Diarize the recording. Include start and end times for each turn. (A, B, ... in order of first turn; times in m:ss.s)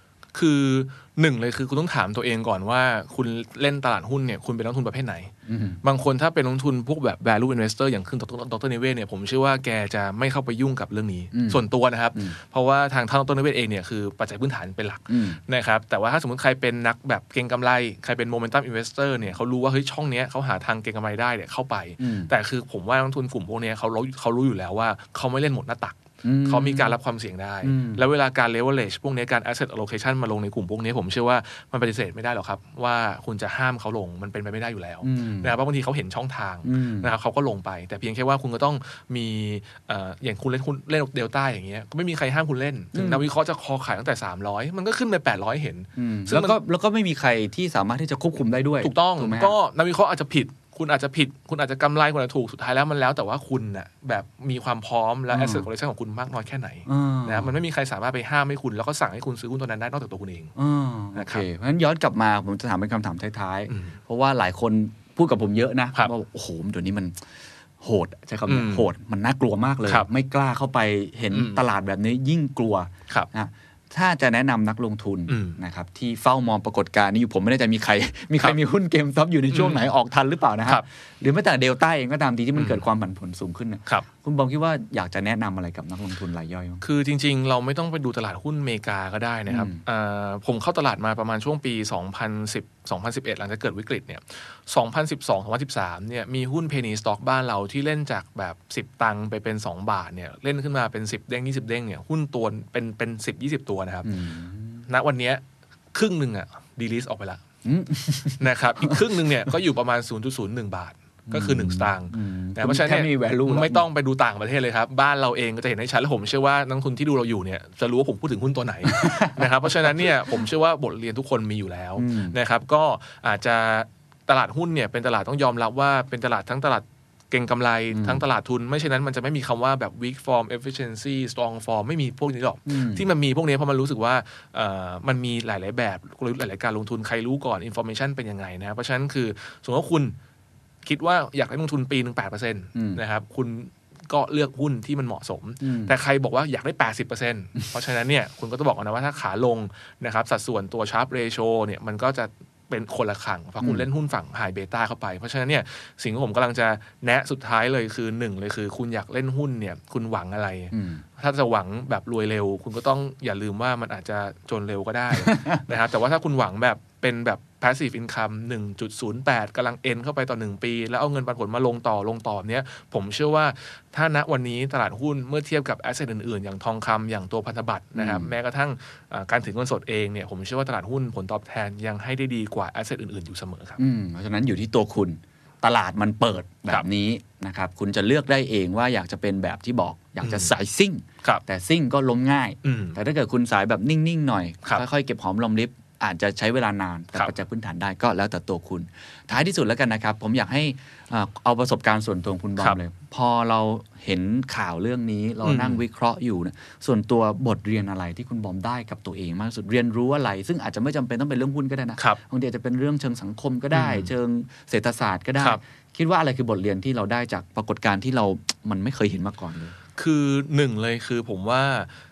0:00.4-0:46.6 A
0:05.5-0:05.8 B
0:11.3-0:11.6 B
0:15.1-0:15.4 B
0:22.0-0:22.3 B
0:26.2-0:27.0 B
0:27.6-0:28.0 B
0:35.0-0:35.5 B
0:36.6-0:37.1 B
0:42.9-0:43.2 B
0:46.0-0:49.6 B
0:48.8-1:00.5 A
0:55.3-0:55.7 B
0:56.9-0:57.5 B
1:00.6-1:07.2 B
1:01.2-1:01.4 A
1:03.7-1:04.0 A
1:07.8-1:26.8 B
1:08.5-1:08.9 A
1:11.3-1:11.6 A
1:15.3-1:15.6 A
1:19.5-1:19.8 A
1:22.6-1:22.8 A
1:26.8-1:44.1 A
1:29.5-1:29.8 B
1:44.0-1:44.8 B
1:44.9-1:45.4 A
1:45.9-1:47.4 A
1:47.6-1:49.5 B
1:48.4-2:20.2 A
1:51.3-1:53.8 B
1:58.9-2:00.1 B
2:02.0-2:02.4 B
2:07.9-2:08.2 B
2:12.7-2:13.0 B
2:20.8-3:03.8 A
2:22.8-2:23.0 B
2:25.6-2:25.9 B
2:33.6-2:33.9 B
2:40.7-2:41.0 B
2:45.1-2:45.6 B
2:58.0-2:58.3 B
3:03.8-3:39.8 B
3:10.2-3:10.5 A
3:12.6-3:13.0 A
3:25.4-3:25.8 A
3:33.7-3:34.1 A
3:40.0-3:41.9 A